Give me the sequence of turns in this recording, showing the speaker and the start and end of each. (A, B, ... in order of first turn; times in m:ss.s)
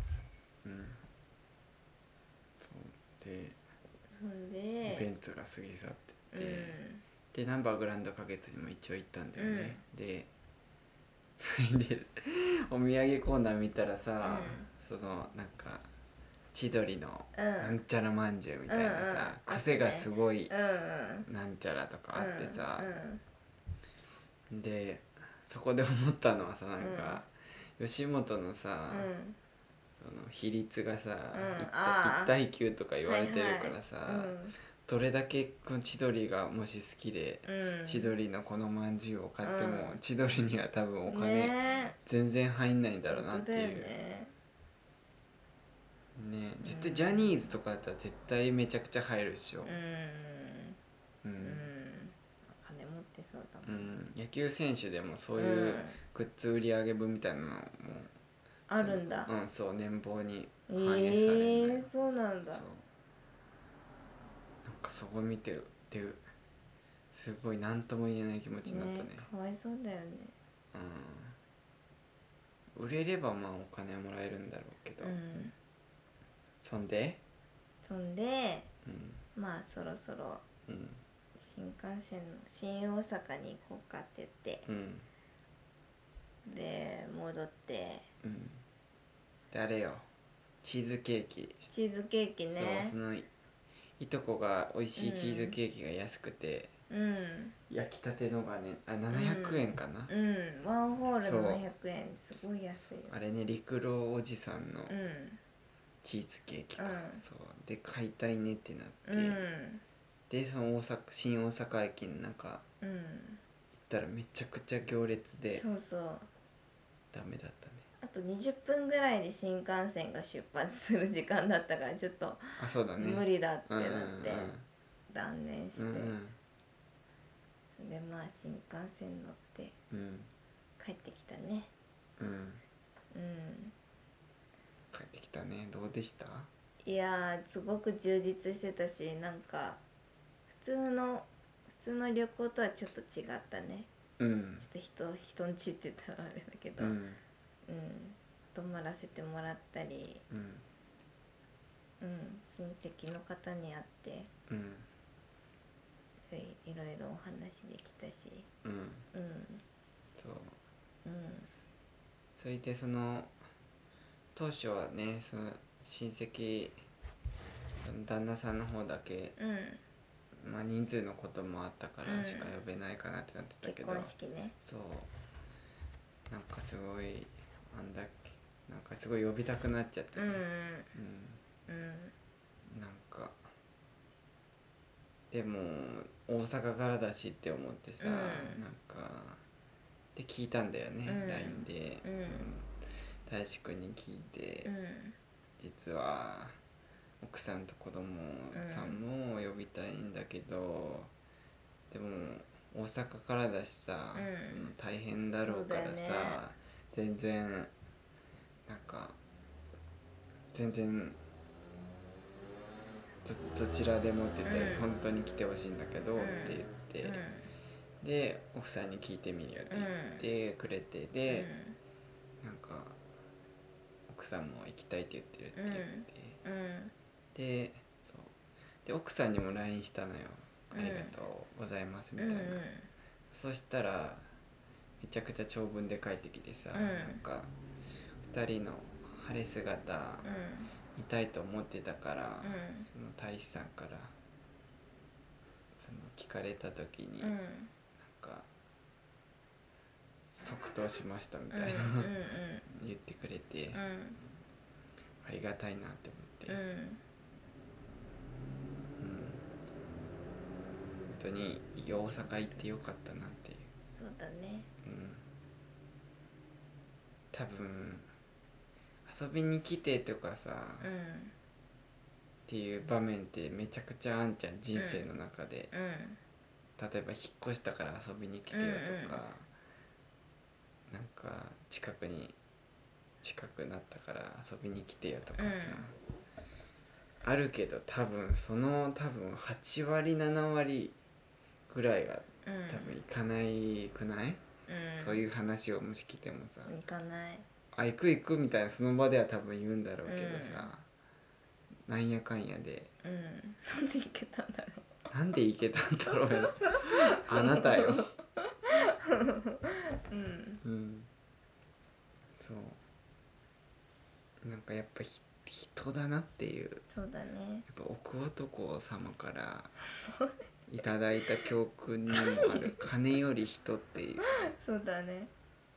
0:00.6-0:01.0 A
0:02.6-0:03.6 A
0:04.1-0:05.1 B
0:04.8-0:06.8 A
0:06.3-0:07.0 B
0:07.3-0:10.3 A
0:09.4-0:09.8 B
0:11.4-0:15.9 A
0:14.2-0:14.7 B
0:16.5-0:20.5 A
0:17.3-0:17.8 B
0:18.7-0:21.3 B
0:21.2-0:23.0 A
0:22.1-0:23.2 B
0:24.5-0:29.1 A
0:26.8-0:27.2 B
0:28.9-0:29.4 B
0:30.0-0:43.9 A
0:31.3-0:32.3 B
0:33.0-0:34.5 B
0:37.4-0:38.1 B
0:39.4-0:40.0 B
0:41.1-0:42.0 B
0:43.1-0:44.3 B
0:46.2-0:49.7 A
0:46.6-0:47.6 B
0:49.6-0:50.8 B
0:51.2-0:51.7 A
0:51.4-0:53.9 B
0:53.6-0:58.1 A
0:55.4-0:56.0 B
0:58.7-0:59.3 B
0:58.8-1:01.9 A
1:00.7-1:02.6 B
1:02.4-1:02.8 A
1:04.6-1:06.2 A
1:07.1-1:09.3 A
1:08.6-1:10.3 B
1:10.7-1:11.4 A
1:12.8-1:15.2 A
1:15.0-1:15.5 B
1:16.6-1:17.2 A
1:17.8-1:18.7 B
1:18.8-1:19.2 A
1:19.4-1:20.4 B
1:20.7-1:21.0 A
1:21.4-1:24.6 B
1:24.6-1:25.1 A
1:26.5-1:28.1 B
1:28.2-1:28.6 A
1:29.5-1:30.1 A
1:30.6-1:31.6 A
1:31.7-1:33.0 B
1:32.5-1:33.3 A
1:34.0-1:36.7 A
1:35.0-1:35.6 B
1:36.9-1:37.5 B
1:37.7-1:40.1 A
1:39.1-1:43.1 B
1:41.2-1:41.6 A
1:42.7-1:44.9 A
1:44.9-1:45.4 B
1:46.0-1:49.4 A
1:46.8-1:47.2 B
1:49.0-1:49.8 B
1:50.3-1:52.6 A
1:52.8-1:53.4 B
1:53.7-1:55.6 A
1:55.5-1:56.3 B
1:57.1-1:57.9 A
1:58.0-2:02.5 B
2:02.6-2:04.6 A
2:03.0-2:04.6 B
2:05.1-2:06.2 B
2:05.8-2:06.4 A
2:07.7-2:09.8 B
2:09.9-2:10.3 A
2:10.8-2:11.7 B
2:12.2-2:12.6 A
2:13.1-2:13.7 B
2:14.9-2:16.5 A
2:16.8-2:19.8 B
2:20.5-2:23.9 B
2:24.2-2:24.7 A
2:24.6-2:27.0 B
2:26.8-2:27.2 A
2:27.7-2:30.2 B
2:30.3-2:30.6 A
2:32.0-2:34.3 B
2:34.5-2:34.9 A
2:36.3-2:38.5 B
2:38.6-2:39.1 A
2:39.1-2:39.6 B
2:40.2-2:40.6 A
2:41.0-2:41.5 B
2:42.4-2:43.3 A
2:44.3-2:46.8 A
2:47.8-2:49.4 A
2:49.4-2:49.8 B
2:50.4-2:55.1 A
2:52.0-2:52.5 B
2:53.6-2:54.6 B
2:56.3-3:01.4 A
3:00.2-3:00.9 B
3:01.7-3:02.1 B
3:02.7-3:03.4 A
3:05.3-3:09.4 A
3:08.0-3:08.6 B
3:10.1-3:12.7 A
3:11.1-3:12.5 B
3:13.2-3:14.7 A
3:14.6-3:15.2 B
3:15.6-3:16.6 A
3:17.2-3:21.1 A
3:18.5-3:19.0 B
3:21.9-3:27.7 A
3:24.1-3:24.7 B
3:25.4-3:26.4 B
3:28.7-3:29.2 A
3:30.5-3:31.2 A
3:33.2-3:37.2 A
3:34.4-3:34.9 B
3:36.2-3:37.5 B
3:38.0-3:41.5 A
3:39.7-3:40.2 B
3:41.3-3:41.8 B
3:42.4-3:43.0 A
3:44.1-3:46.4 A
3:45.5-3:46.9 B
3:47.3-3:52.6 A
3:50.7-3:51.1 B
3:52.2-3:52.9 B
3:53.3-3:54.3 A
3:55.0-3:57.5 A
3:56.7-3:57.2 B
3:58.3-4:00.2 A
4:00.2-4:00.7 B
4:00.9-4:04.1 A
4:02.4-4:02.9 B
4:05.8-4:07.3 A
4:07.2-4:07.7 B
4:08.0-4:08.5 A
4:10.4-4:12.1 A
4:11.5-4:12.6 B
4:12.7-4:13.8 A
4:13.7-4:14.2 B
4:15.2-4:16.6 A
4:16.5-4:17.0 B
4:19.0-4:19.5 A
4:21.1-4:23.7 A
4:21.9-4:22.7 B
4:23.9-4:24.7 B
4:24.8-4:25.2 A
4:27.3-4:28.1 A
4:29.0-4:30.9 A
4:30.8-4:31.3 B
4:32.5-4:35.7 A
4:34.7-4:35.0 B
4:35.7-4:36.2 B
4:36.8-4:39.5 A
4:38.5-4:39.2 B
4:40.9-4:42.4 A
4:43.2-4:46.0 A
4:45.4-4:45.8 B
4:47.2-4:51.0 A
4:51.7-4:54.4 A
4:52.4-4:53.0 B
4:54.7-4:55.2 B
4:55.0-4:56.7 A
4:56.6-4:57.4 B
4:57.7-5:00.9 A
5:00.0-5:00.7 B
5:01.9-5:02.9 A
5:03.0-5:04.9 B
5:05.1-5:08.1 A
5:06.4-5:08.0 B
5:08.6-5:10.6 B
5:10.6-5:11.1 A
5:12.4-5:12.8 A
5:14.4-5:16.8 A
5:16.9-5:17.6 B
5:17.7-5:19.7 A
5:20.0-5:20.4 B
5:20.7-5:24.2 A
5:22.2-5:22.7 B
5:24.4-5:25.3 B